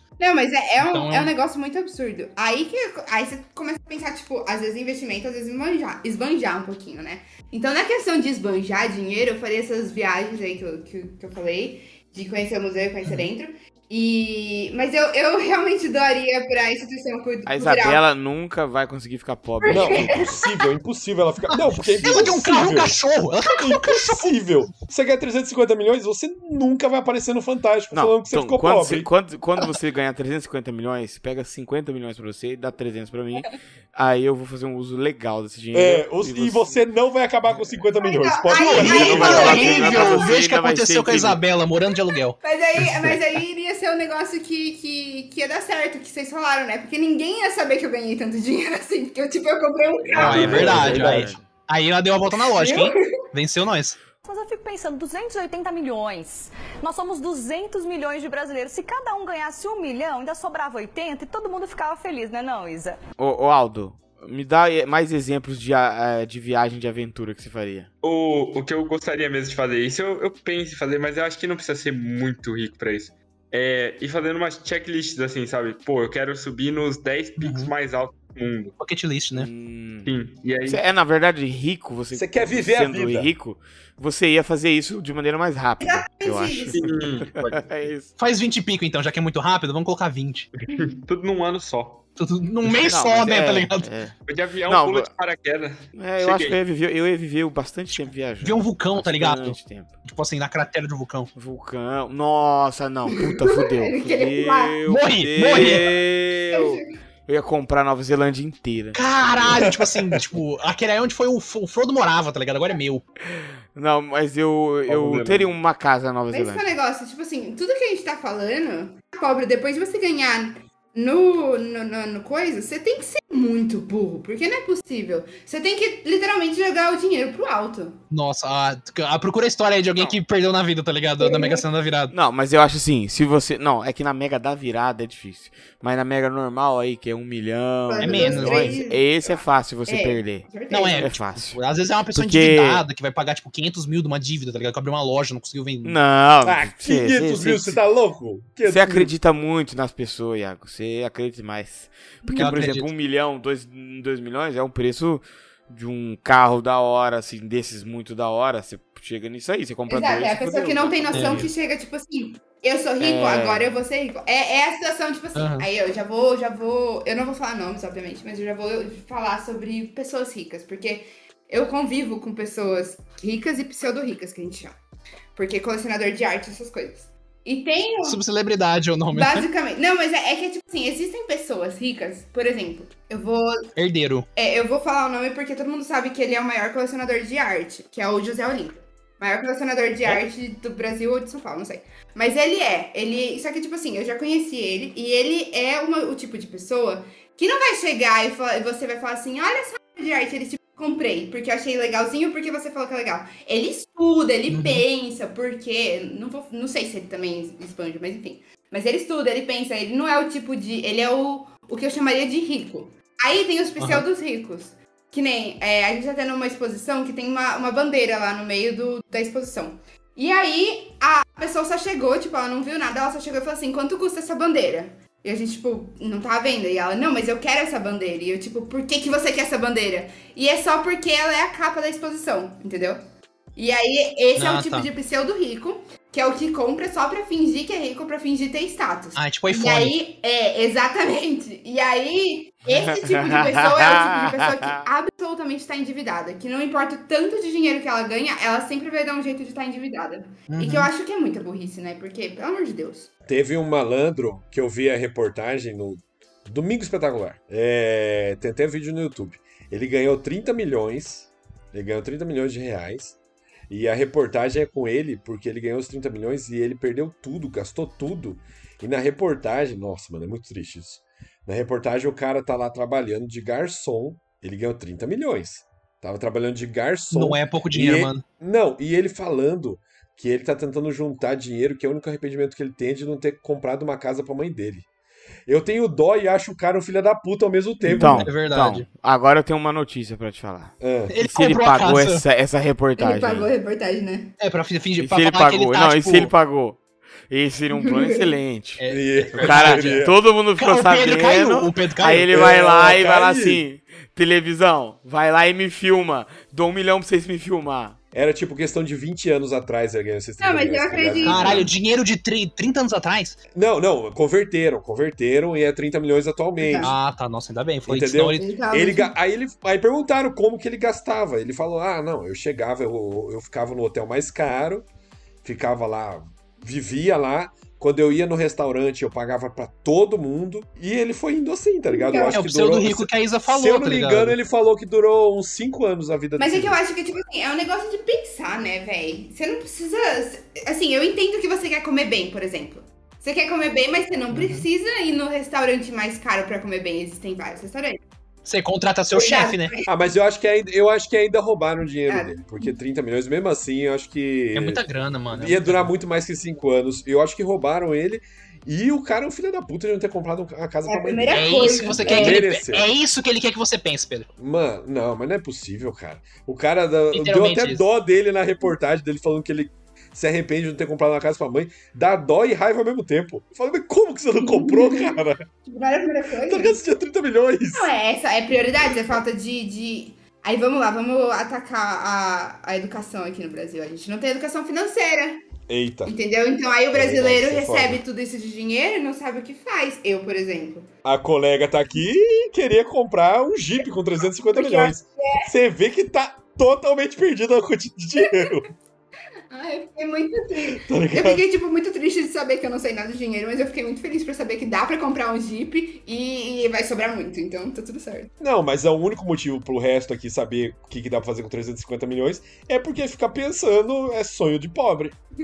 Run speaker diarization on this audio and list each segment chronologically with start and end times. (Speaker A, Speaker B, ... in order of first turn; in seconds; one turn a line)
Speaker A: 0.2-18.0
Speaker B: 0.8-1.3
Speaker B: 13.1-13.3
Speaker C: 17.4-20.2
Speaker A: 19.6-20.7
Speaker D: 19.7-29.1
Speaker B: 22.0-24.3
Speaker A: 22.1-22.4
Speaker C: 27.9-36.8
Speaker D: 35.7-39.9
Speaker A: 38.0-40.3
Speaker B: 38.5-43.2
Speaker C: 38.8-41.4
Speaker A: 42.4-50.9
Speaker C: 50.1-51.4
Speaker B: 50.1-54.0
Speaker D: 50.1-51.3
Speaker A: 52.5-53.1
Speaker E: 54.2-63.0
Speaker C: 63.2-67.9
Speaker F: 68.0-78.8
Speaker B: 77.4-77.7
Speaker B: 78.8-79.5
Speaker C: 79.3-80.1
Speaker F: 80.0-80.8
Speaker C: 80.7-88.1
Speaker D: 82.1-83.3
Speaker A: 85.8-86.9
Speaker F: 86.7-87.9
Speaker B: 88.2-90.5
Speaker F: 90.6-92.0
Speaker B: 92.2-93.9
Speaker C: 92.8-94.1
Speaker F: 94.3-96.6
Speaker C: 94.7-95.1
Speaker C: 95.9-99.9
Speaker B: 98.4-101.3
Speaker C: 101.3-109.7
Speaker A: 103.2-104.8
Speaker B: 104.9-105.9
Speaker A: 105.5-106.0
Speaker A: 106.5-106.8
Speaker B: 108.9-113.0
Speaker C: 113.3-116.6
Speaker F: 114.9-115.5
Speaker A: 116.3-128.0
Speaker B: 128.1-132.1
Speaker A: 131.2-131.6
Speaker C: 132.1-140.4
Speaker A: 137.9-141.2
Speaker B: 138.0-138.8
Speaker B: 140.7-146.0
Speaker C: 141.0-141.6
Speaker C: 142.1-142.8
Speaker C: 145.8-147.8
Speaker D: 146.4-149.1
Speaker C: 148.6-161.5
Speaker A: 152.2-152.7
Speaker B: 152.4-152.9
Speaker A: 159.9-174.8
Speaker B: 161.1-161.5
Speaker C: 163.0-163.7
Speaker B: 165.3-165.7
Speaker A: 175.3-178.2
Speaker B: 178.0-179.5
Speaker A: 179.1-183.7
Speaker B: 183.8-184.3
Speaker A: 184.3-233.0
Speaker B: 204.5-204.8
Speaker B: 213.8-214.1
Speaker A: 233.6-253.1
Speaker B: 234.3-234.9
Speaker B: 239.2-239.9
Speaker C: 242.7-244.8
Speaker B: 250.5-250.9
Speaker D: 253.2-263.2
Speaker D: 263.7-284.9
Speaker B: 277.1-278.2
Speaker D: 285.5-288.3
Speaker B: 287.8-288.9
Speaker C: 287.9-293.5
Speaker D: 290.8-291.1
Speaker B: 291.1-292.2
Speaker A: 293.0-294.3
Speaker B: 294.4-296.3
Speaker C: 295.0-298.8
Speaker A: 297.7-298.3
Speaker B: 298.8-302.3
Speaker D: 298.9-300.2
Speaker C: 299.4-308.0
Speaker D: 302.3-303.6
Speaker D: 308.1-311.7
Speaker A: 310.4-311.7
Speaker B: 311.2-313.4
Speaker D: 313.5-316.9
Speaker A: 316.6-316.9
Speaker B: 316.8-318.4
Speaker D: 317.9-324.9
Speaker A: 318.4-319.1
Speaker D: 325.4-336.8
Speaker A: 331.9-332.4
Speaker B: 332.2-334.4
Speaker A: 336.4-348.0
Speaker B: 344.3-344.7
Speaker B: 348.4-349.7
Speaker A: 349.1-349.9
Speaker D: 349.9-362.9
Speaker A: 352.1-352.7
Speaker B: 354.5-355.9
Speaker A: 360.9-362.4
Speaker B: 361.3-364.3
Speaker D: 364.4-375.4
Speaker B: 367.1-367.8
Speaker A: 374.4-376.8
Speaker D: 376.4-377.9
Speaker A: 377.7-385.5
Speaker D: 378.8-379.1
Speaker D: 385.7-386.1
Speaker A: 386.1-390.9
Speaker D: 386.9-388.0
Speaker D: 391.0-398.7
Speaker A: 394.5-395.5
Speaker A: 399.5-408.3
Speaker D: 400.7-401.4
Speaker D: 408.4-415.2